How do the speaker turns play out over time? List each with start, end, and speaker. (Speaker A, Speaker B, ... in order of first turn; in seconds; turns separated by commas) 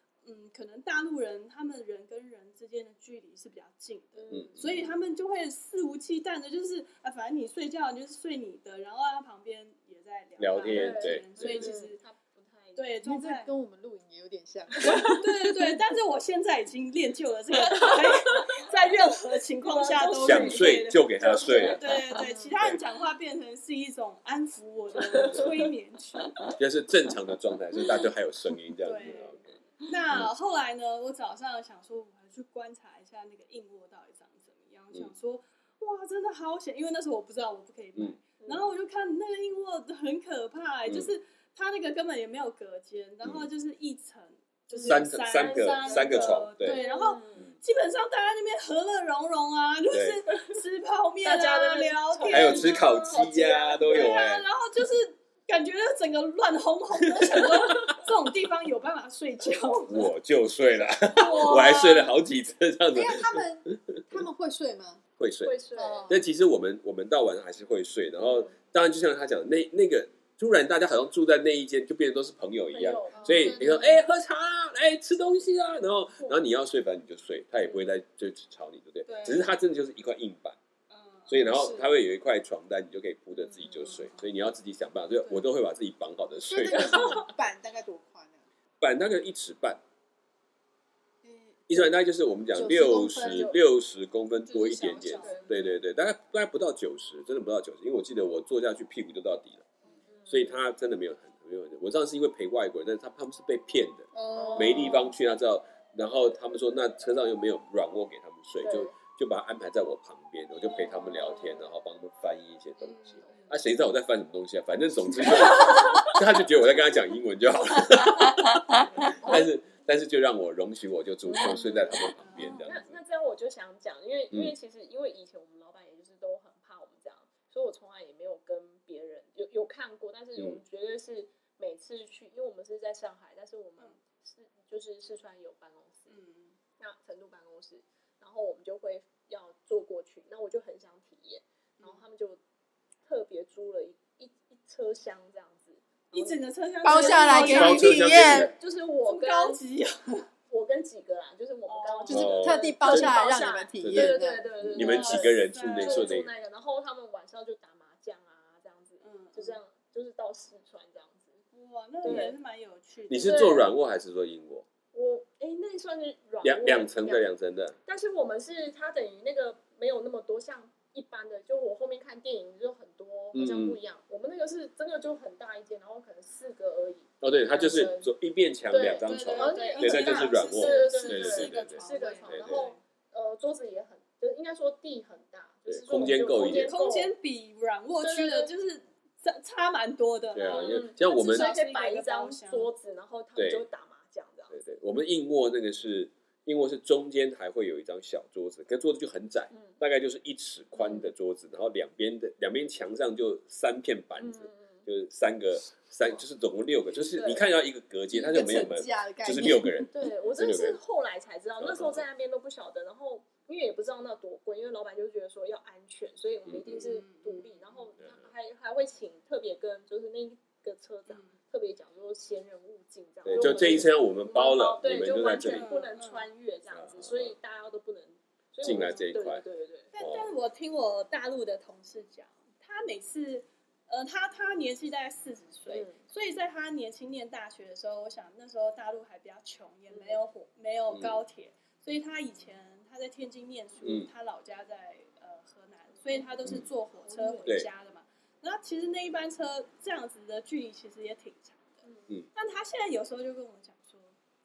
Speaker A: 0.2-12.0, Speaker B: 4.1-4.8, Speaker C: 4.3-4.9, Speaker C: 10.4-11.8, Speaker B: 10.7-12.9, Speaker A: 12.8-13.5, Speaker D: 13.0-15.7, Speaker B: 14.8-15.2, Speaker A: 14.8-26.5, Speaker B: 17.5-18.6, Speaker B: 19.6-22.6, Speaker C: 20.2-21.9, Speaker B: 25.0-25.6, Speaker C: 25.2-25.6, Speaker C: 26.6-29.5, Speaker A: 28.8-53.2, Speaker B: 29.0-29.7, Speaker B: 38.4-38.7, Speaker C: 43.2-43.5, Speaker B: 44.7-47.5, Speaker C: 44.9-46.8, Speaker C: 49.9-50.2, Speaker B: 51.2-54.2, Speaker C: 52.3-54.5, Speaker A: 53.8-60.1, Speaker C: 57.1-58.0, Speaker C: 59.9-64.2, Speaker A: 61.1-62.1, Speaker D: 62.9-65.0, Speaker C: 65.2-65.5, Speaker B: 65.4-66.2, Speaker D: 65.8-66.2, Speaker C: 66.1-80.6, Speaker B: 68.2-68.5, Speaker B: 72.7-73.8, Speaker A: 73.1-74.0, Speaker D: 73.2-73.7, Speaker B: 77.6-77.9, Speaker A: 79.1-79.5, Speaker A: 80.9-81.9, Speaker C: 81.3-87.2, Speaker B: 83.3-84.0, Speaker A: 83.8-84.4, Speaker D: 86.5-88.5, Speaker C: 88.8-89.8, Speaker D: 91.2-91.9, Speaker C: 91.7-99.7, Speaker D: 92.5-93.6, Speaker B: 93.2-93.6, Speaker A: 94.5-95.7, Speaker B: 95.2-95.8, Speaker B: 99.9-100.6, Speaker C: 100.3-123.0, Speaker D: 104.2-105.1, Speaker B: 104.3-105.1, Speaker B: 108.6-108.9, Speaker B: 110.6-111.7, Speaker A: 112.8-113.6, Speaker A: 115.5-116.0, Speaker B: 115.6-116.1, Speaker A: 118.7-119.5, Speaker B: 119.2-119.5, Speaker A: 121.3-122.8, Speaker B: 122.6-136.2, Speaker A: 136.1-136.6, Speaker B: 136.8-142.4, Speaker A: 141.8-142.0, Speaker B: 143.1-147.4, Speaker A: 146.1-148.3, Speaker D: 146.8-148.5, Speaker C: 147.2-148.5, Speaker B: 148.2-149.6, Speaker A: 149.0-150.3, Speaker B: 150.5-161.4, Speaker A: 151.7-152.5, Speaker D: 152.1-154.5, Speaker C: 152.1-153.2, Speaker C: 153.8-156.3, Speaker A: 154.8-156.2, Speaker A: 159.0-159.6, Speaker A: 161.5-163.7, Speaker B: 162.0-162.4, Speaker C: 163.1-164.7, Speaker B: 163.3-163.6, Speaker B: 164.9-167.2, Speaker C: 166.4-167.8, Speaker B: 167.9-178.1, Speaker C: 173.3-173.8, Speaker C: 177.2-182.7, Speaker B: 178.7-187.1, Speaker A: 179.0-182.8, Speaker C: 185.7-186.7, Speaker A: 186.4-192.7, Speaker B: 188.0-188.5, Speaker C: 190.3-191.6, Speaker B: 190.5-194.6, Speaker C: 193.4-193.7, Speaker C: 194.5-210.8, Speaker B: 199.5-199.8, Speaker B: 200.8-201.1, Speaker B: 204.2-204.9, Speaker B: 207.1-207.5, Speaker D: 208.1-209.9, Speaker B: 209.9-229.9, Speaker C: 211.6-212.0, Speaker C: 216.5-216.9, Speaker A: 216.7-217.9, Speaker C: 218.0-218.2, Speaker A: 221.1-221.4, Speaker C: 223.3-225.7, Speaker A: 223.3-223.8, Speaker A: 225.1-226.3, Speaker C: 226.7-227.4, Speaker C: 228.6-229.4, Speaker A: 228.7-229.1, Speaker A: 229.9-251.8, Speaker C: 230.0-230.3, Speaker B: 235.7-236.0, Speaker B: 239.9-240.2, Speaker C: 240.9-241.2, Speaker C: 243.8-244.1, Speaker C: 246.4-246.7, Speaker B: 247.1-247.6, Speaker B: 251.8-252.2, Speaker A: 252.3-254.2